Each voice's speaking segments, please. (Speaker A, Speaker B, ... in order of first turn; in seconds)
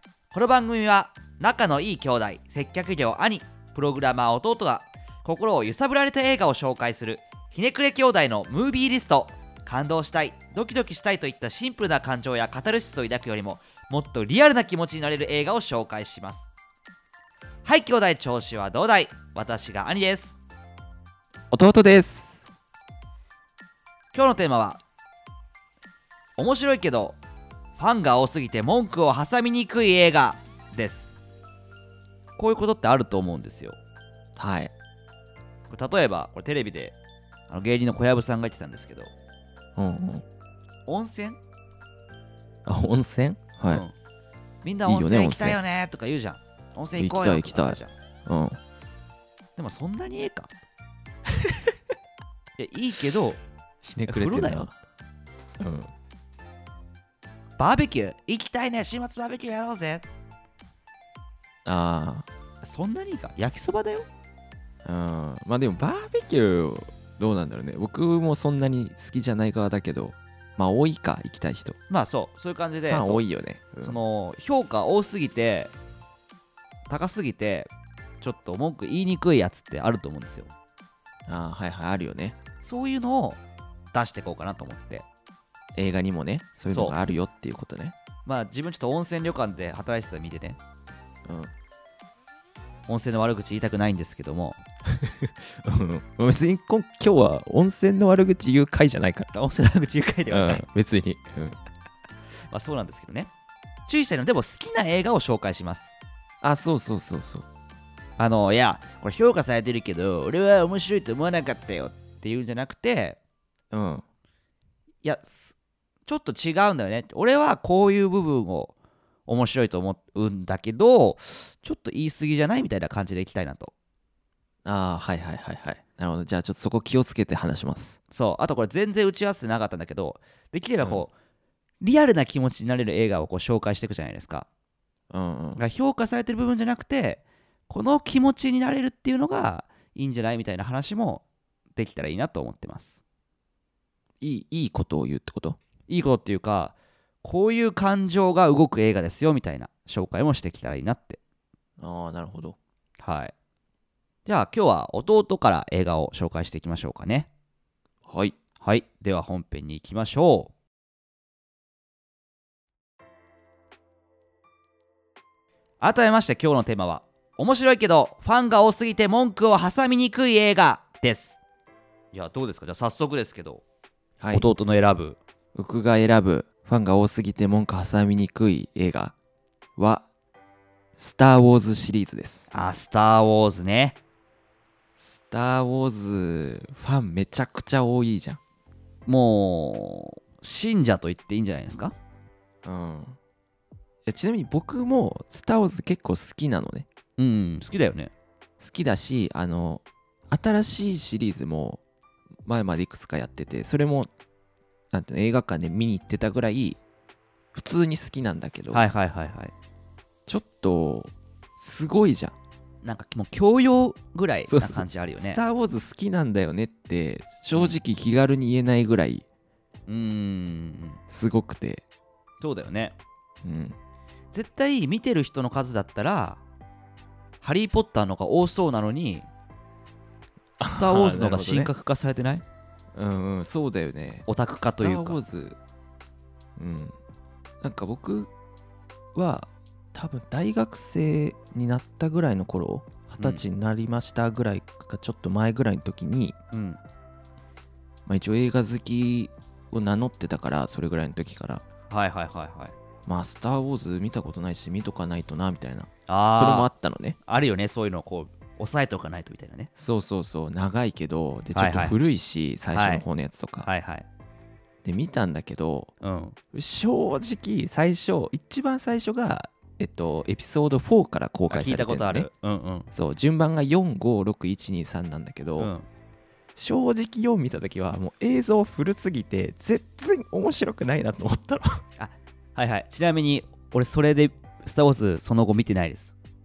Speaker A: 0.3-16.4, 17.6-20.4, 24.1-24.8, 26.4-27.2, 27.8-31.1, 32.4-33.8, 35.7-37.0, 37.5-39.1, 40.9-41.4, 43.7-43.9, 44.6-47.9, 49.6-50.5, 52.6-53.4, 54.1-54.6, 57.6-60.0, 62.6-64.1, 71.9-73.2, 73.8-75.7, 76.9-77.7, 78.2-80.5, 82.6-83.4, 83.9-85.0, 86.7-87.0, 88.2-90.6, 92.9-94.6, 99.3-100.6, 102.5-103.3, 103.9-105.9, 108.2-113.2, 115.0-118.7, 119.3-123.7, 128.1-131.1, 131.8-134.5, 135.6-141.2, 141.8-142.9, 145.9-151.2, 153.0-153.3, 154.2-157.3, 158.6-160.5, 165.8-171.4, 172.1-173.6, 174.3-175.2, 182.5-184.0, 189.1-191.9, 197.2-198.1, 208.7-209.5, 212.8-215.4, 219.9-221.0, 222.4-223.0, 224.3-226.4, 227.4-229.3, 230.7-232.4, 234.3-235.2, 243.2-243.4, 246.5-246.8, 251.9-252.7, 256.1-256.7, 257.3-259.7, 261.5-262.0, 262.7-263.0, 263.6-264.1, 266.0-266.4, 271.5-272.9, 275.6-275.8, 282.0-286.1
Speaker B: 21.5-22.5, 34.4-34.7, 39.8-40.2, 42.6-43.8, 44.8-45.6, 47.0-48.6, 53.8-54.8, 55.6-55.9, 61.6-62.3, 64.8-71.8, 72.9-74.0, 81.3-82.4, 85.7-87.9, 91.3-91.5, 94.9-99.3, 100.3-101.6, 106.4-107.5, 113.7-114.0, 124.6-128.0, 130.8-131.1, 135.1-135.6, 144.2-145.6, 151.8-152.6, 158.1-158.3, 174.2-174.5, 175.5-179.1, 179.8-180.1, 181.0-182.5, 185.0-188.4, 192.6-193.2, 194.1-196.9, 198.6-201.8, 202.4-204.1, 204.9-206.8, 207.5-208.8, 210.3-212.3, 214.5-219.2, 221.1-221.8, 223.4-223.8, 230.6-231.7, 232.9-235.6, 236.6-236.9, 237.6-238.3, 239.1-246.3, 248.1-251.6, 253.1-257.2, 259.8-263.7, 264.8-265.9, 266.5-272.3, 272.9-275.7, 276.6-281.8